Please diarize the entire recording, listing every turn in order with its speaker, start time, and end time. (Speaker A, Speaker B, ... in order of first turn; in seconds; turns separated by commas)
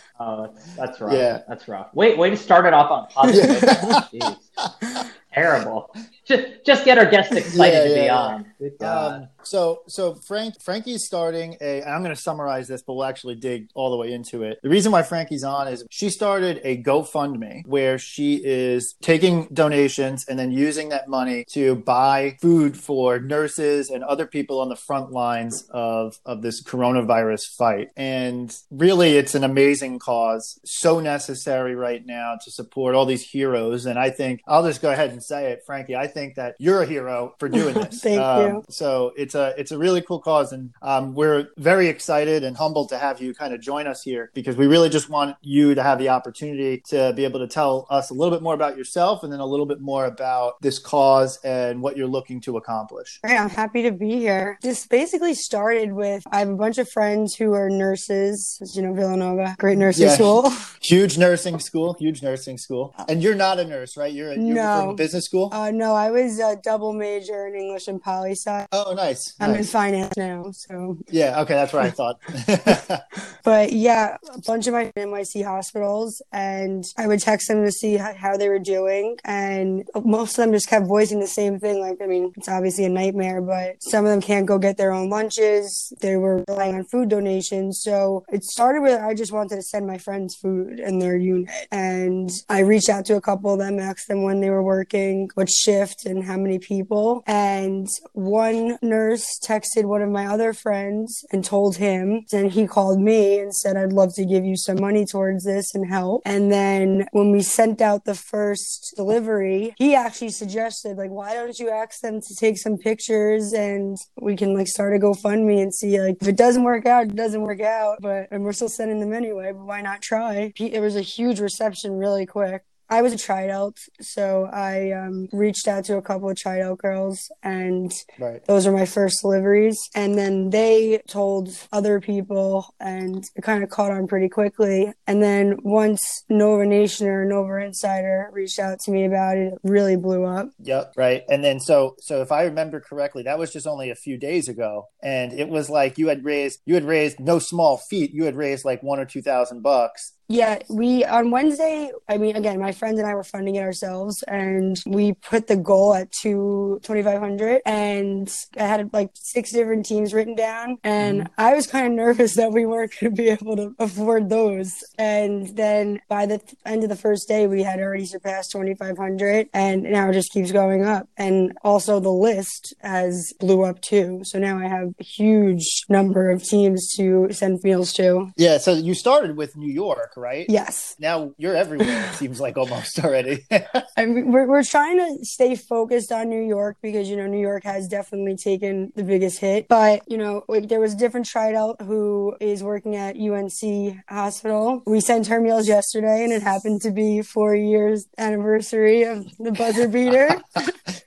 Speaker A: 0.2-4.4, Speaker B: 1.0-1.4, Speaker B: 3.3-4.1, Speaker C: 3.3-4.0, Speaker B: 4.6-5.0, Speaker A: 5.3-9.2, Speaker B: 7.5-53.2, Speaker C: 37.5-38.6, Speaker C: 53.2-60.6, Speaker B: 59.9-65.5, Speaker C: 64.3-68.7, Speaker B: 68.7-69.7, Speaker C: 69.4-71.0, Speaker B: 71.1-73.0, Speaker C: 73.4-140.5, Speaker B: 128.2-128.4, Speaker B: 140.6-150.1, Speaker C: 150.3-178.3, Speaker B: 161.0-161.3, Speaker B: 178.4-183.8, Speaker C: 180.5-181.0, Speaker C: 181.8-182.2, Speaker C: 184.0-200.7